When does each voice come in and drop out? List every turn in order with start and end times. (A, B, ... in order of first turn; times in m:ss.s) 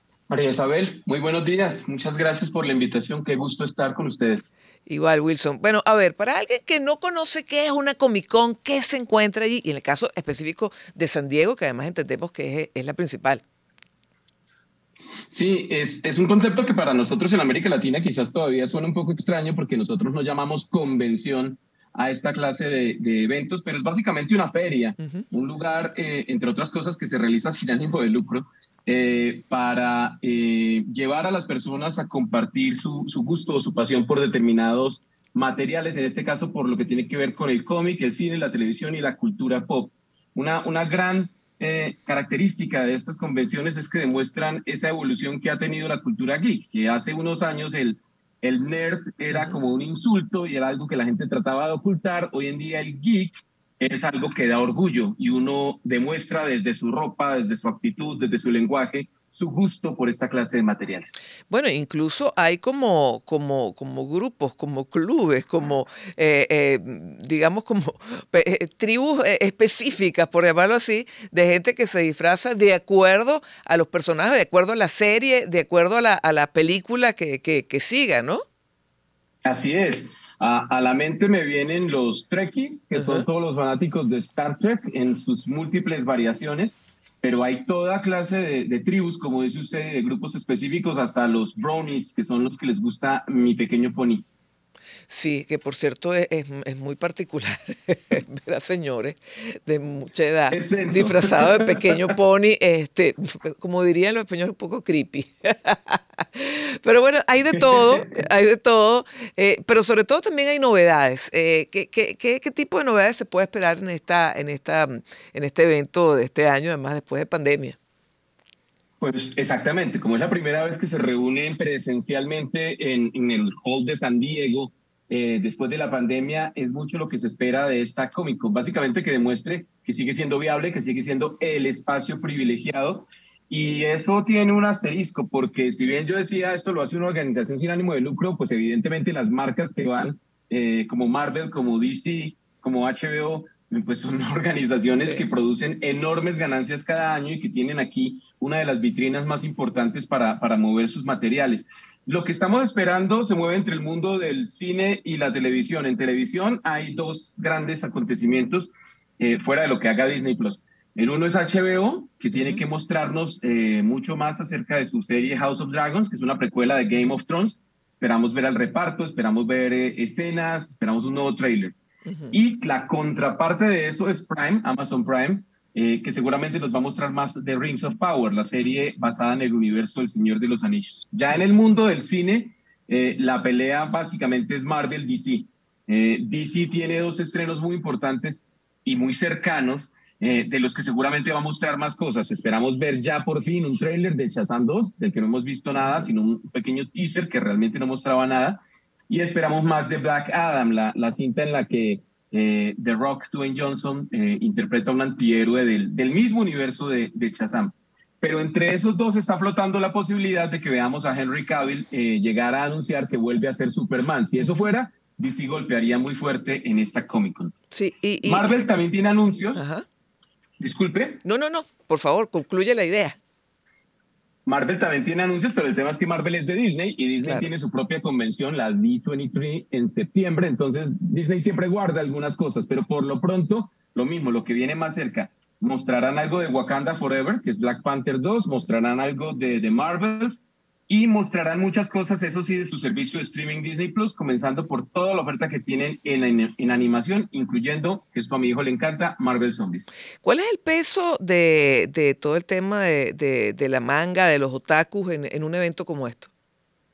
0:00.3-0:04.5 A
0:04.8-0:13.4 B
0:15.3-1:01.2 A
0:49.3-0:49.6 B
1:01.5-1:18.4 B
1:19.4-1:34.3 A
1:22.9-1:23.2 B
1:35.1-1:57.8 B
1:40.5-1:42.0 A
1:47.6-1:48.0 A
1:59.0-2:51.8 A
2:42.3-2:42.6 B
2:52.0-2:52.4 B
2:52.3-3:18.6 A
3:15.8-3:16.1 B
3:19.1-3:37.5 A
3:37.7-3:38.5 B
3:38.2-3:39.6 A
3:39.6-3:39.8 B
3:40.6-3:41.2 A
3:41.2-3:43.2 B
3:44.4-4:09.9 A
3:47.2-3:47.5 B
4:10.2-4:16.3 B